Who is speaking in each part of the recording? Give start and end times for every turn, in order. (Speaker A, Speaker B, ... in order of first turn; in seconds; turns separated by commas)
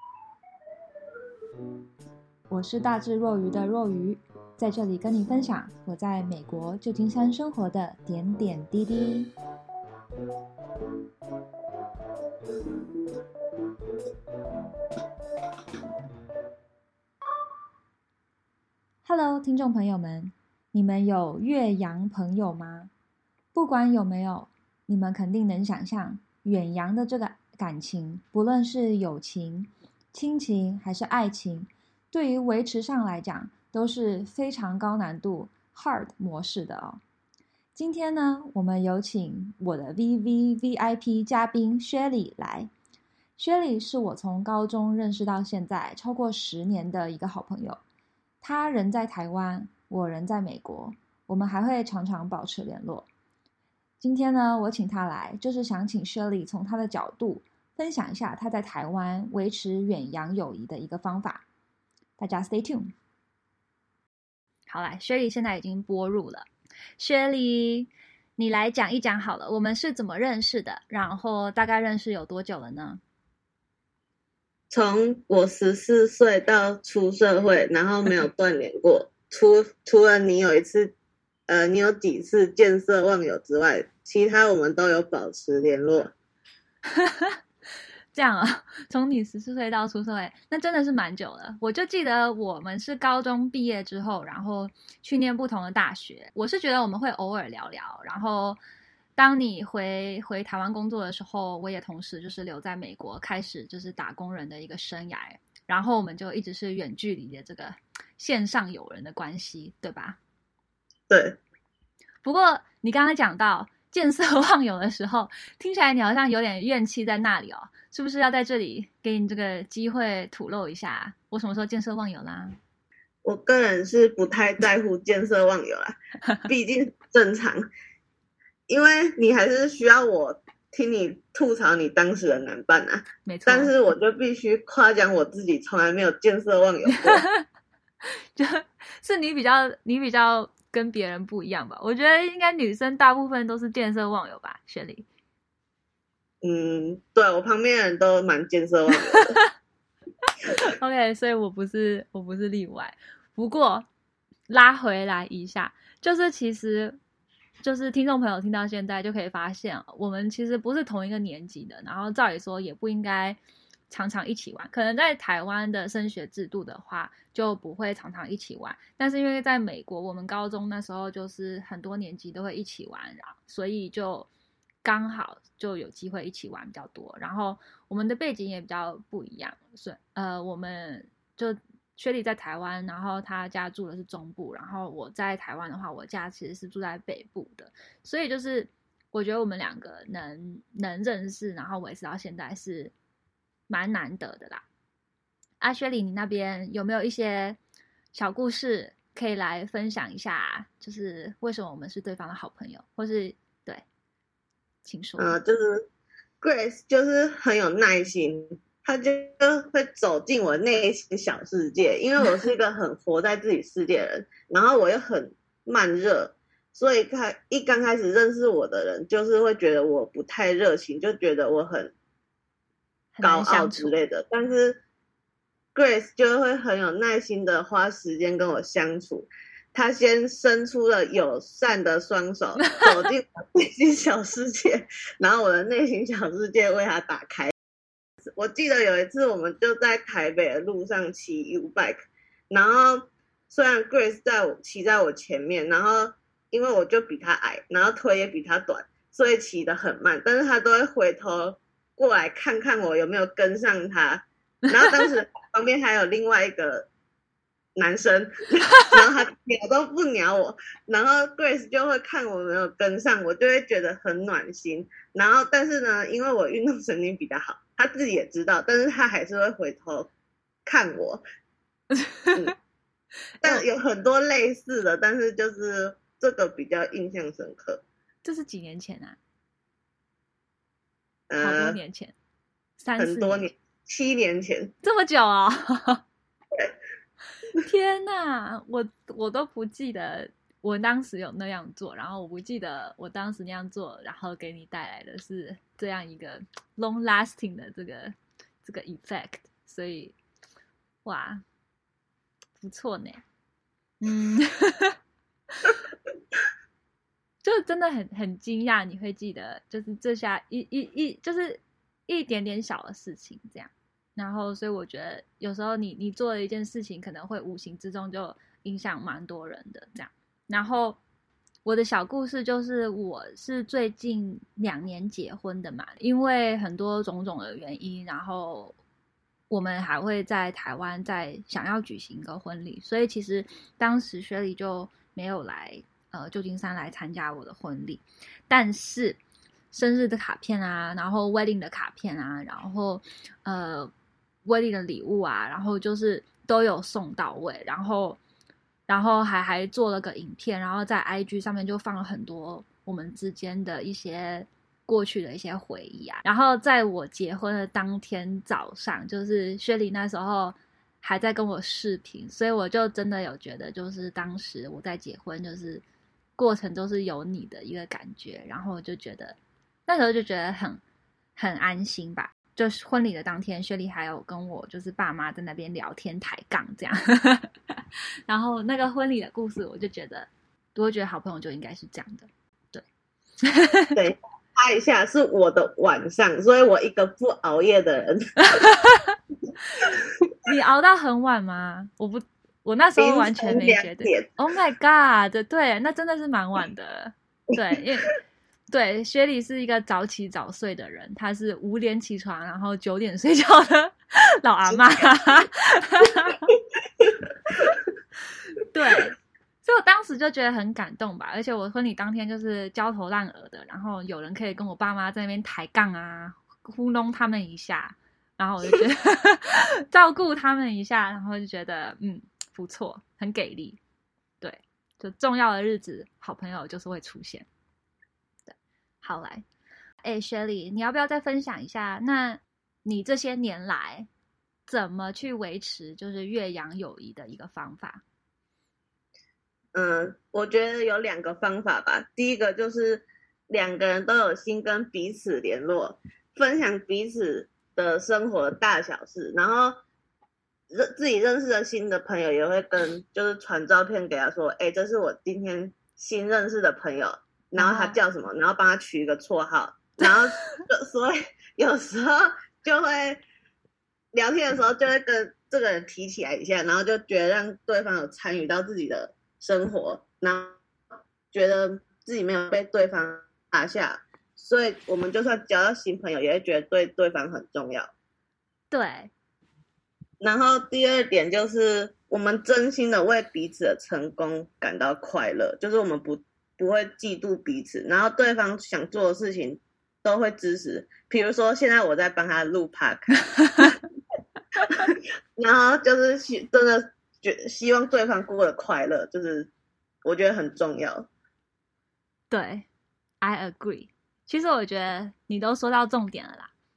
Speaker A: 2.5-9.3, Speaker A: 19.0-22.9, Speaker A: 23.5-37.0, Speaker A: 37.7-42.7, Speaker A: 43.4-47.8, Speaker A: 48.4-53.1, Speaker A: 54.0-61.5, Speaker A: 62.2-62.9, Speaker A: 64.7-66.5, Speaker A: 67.0-73.0, Speaker B: 74.7-80.9, Speaker B: 81.5-86.1, Speaker A: 86.9-87.4, Speaker A: 88.1-98.6, Speaker A: 99.2-110.2, Speaker B: 111.1-111.4, Speaker A: 112.2-122.6, Speaker B: 123.2-127.6, Speaker B: 128.7-137.2, Speaker A: 133.2-133.7, Speaker A: 136.9-137.4, Speaker A: 138.3-145.1, Speaker B: 146.4-149.4, Speaker A: 150.5-153.9, Speaker A: 154.5-157.0, Speaker A: 157.6-163.4, Speaker A: 163.9-174.3, Speaker A: 174.8-192.9, Speaker A: 193.7-194.6, Speaker A: 195.6-197.6, Speaker A: 198.1-203.8, Speaker A: 204.8-205.4, Speaker B: 205.2-205.9, Speaker B: 206.4-221.9, Speaker A: 223.1-224.0, Speaker B: 223.2-224.8, Speaker B: 225.7-237.5, Speaker A: 232.6-233.1, Speaker B: 238.3-256.9, Speaker B: 257.8-270.1, Speaker B: 270.6-271.2, Speaker A: 272.0-272.4, Speaker B: 273.4-277.8, Speaker A: 278.2-279.2, Speaker B: 281.3-281.8, Speaker A: 281.4-282.1, Speaker A: 282.8-283.5, Speaker B: 283.0-284.7, Speaker A: 284.8-286.0, Speaker A: 287.6-300.1, Speaker A: 301.0-301.4, Speaker A: 302.6-303.2, Speaker A: 304.0-304.9, Speaker A: 307.4-321.0, Speaker A: 321.6-328.8, Speaker A: 329.5-339.2, Speaker A: 339.7-343.9, Speaker A: 344.4-348.2, Speaker A: 348.9-365.8, Speaker A: 366.4-370.8, Speaker A: 371.4-377.5, Speaker A: 378.3-382.8, Speaker A: 383.4-384.0, Speaker B: 383.9-388.4, Speaker A: 388.5-389.1, Speaker A: 390.5-398.1, Speaker B: 393.0-394.3, Speaker A: 398.7-406.5, Speaker A: 408.7-423.8, Speaker A: 424.4-427.5, Speaker A: 428.4-429.4, Speaker A: 430.0-434.1, Speaker A: 434.7-438.0, Speaker B: 439.7-449.7, Speaker B: 450.7-463.2, Speaker A: 457.6-458.0, Speaker B: 464.1-470.6, Speaker B: 471.3-477.9, Speaker A: 478.7-479.1, Speaker B: 480.2-493.8, Speaker A: 493.4-493.8, Speaker B: 494.7-499.5, Speaker B: 500.0-501.1, Speaker A: 502.3-502.7, Speaker A: 503.2-506.5